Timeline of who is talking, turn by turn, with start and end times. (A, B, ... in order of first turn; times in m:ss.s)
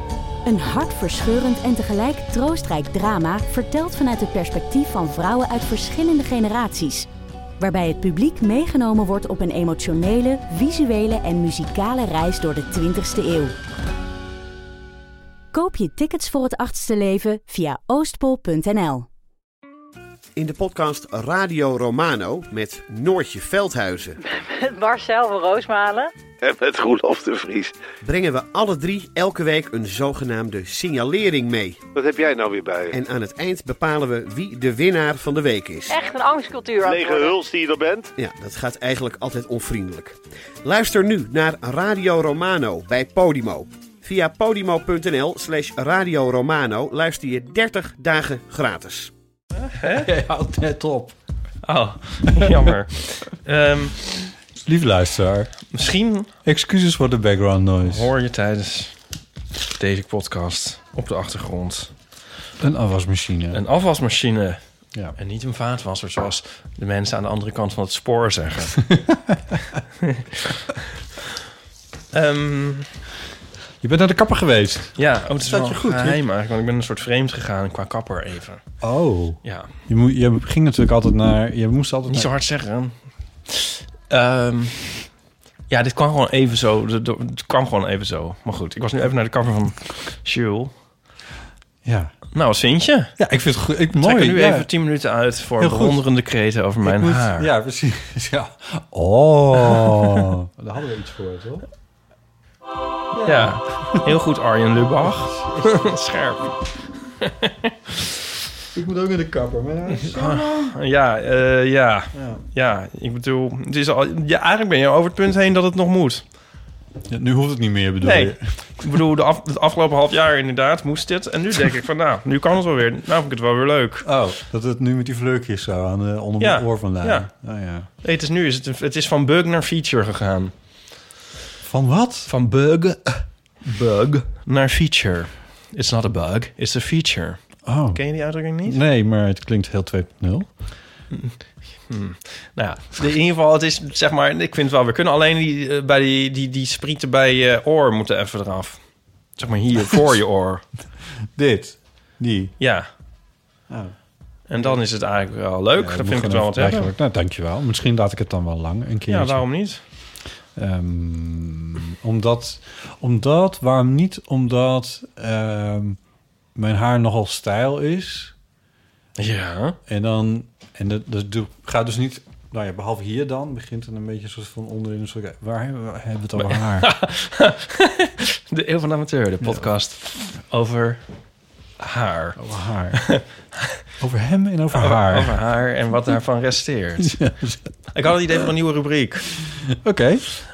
0:00.4-0:07.1 A
0:07.6-0:13.6 A
0:15.5-0:19.1 A
0:20.4-0:24.2 B
0:24.2-0:26.1 C
0:26.4-0:27.7 D
0:28.0-0:31.8 B
0:32.0-0:32.9 D
0:32.9-0:36.0 B
0:35.9-0:37.4 C
0:36.8-0:38.1 D
0:38.2-0:49.1 B
0:49.6-0:50.1 E
0:49.8-0:51.2 F
0:51.6-0:54.1 E
0:52.3-0:52.6 F
0:54.6-0:55.5 F
0:55.7-0:56.3 E
0:56.4-0:58.1 F
0:57.9-0:58.9 E
0:59.8-1:01.9 E
1:02.6-1:03.6 F
1:03.5-1:04.6 E
1:05.2-1:08.8 E
1:08.8-1:09.8 F
1:10.0-1:10.9 E
1:12.1-1:12.9 E
1:13.8-1:16.2 F
1:15.0-1:18.6 E
1:18.8-1:22.3 F
1:22.1-1:22.9 E
1:23.5-1:25.0 E
1:25.7-1:30.7 E
1:31.8-1:32.1 F
1:32.4-1:33.1 E
1:33.2-1:34.7 F
1:34.0-1:37.5 E
1:35.6-1:36.0 F
1:36.8-1:41.7 F
1:39.7-1:40.3 E
1:43.1-1:44.1 F
1:43.2-1:46.6 E
1:45.2-1:46.0 F
1:47.2-1:48.1 E
1:48.7-1:50.7 F
1:49.9-1:56.2 E
1:52.1-1:52.4 F
1:57.1-1:58.4 F
1:58.0-2:04.1 E
2:04.0-2:07.9 F
2:06.4-2:07.3 E
2:08.0-2:10.5 E
2:11.6-2:12.3 F
2:12.3-2:18.8 E
2:17.7-2:18.0 F
2:18.6-2:20.5 F
2:21.1-2:21.4 E
2:21.9-2:28.8 E
2:29.4-2:30.6 E
2:31.4-2:32.5 F
2:32.6-2:32.9 E
2:34.5-2:36.9 E
2:35.8-2:39.4 F
2:39.1-2:39.8 E
2:40.6-2:46.0 F
2:46.6-2:48.3 F
2:49.2-2:49.8 E
2:49.9-2:56.9 F
2:56.4-3:01.0 E
3:01.8-3:02.4 E
3:02.4-3:03.0 F
3:02.9-3:03.7 E
3:04.0-3:05.4 F
3:04.7-3:07.2 E
3:07.0-3:07.7 F
3:07.9-3:09.3 E
3:09.4-3:10.2 F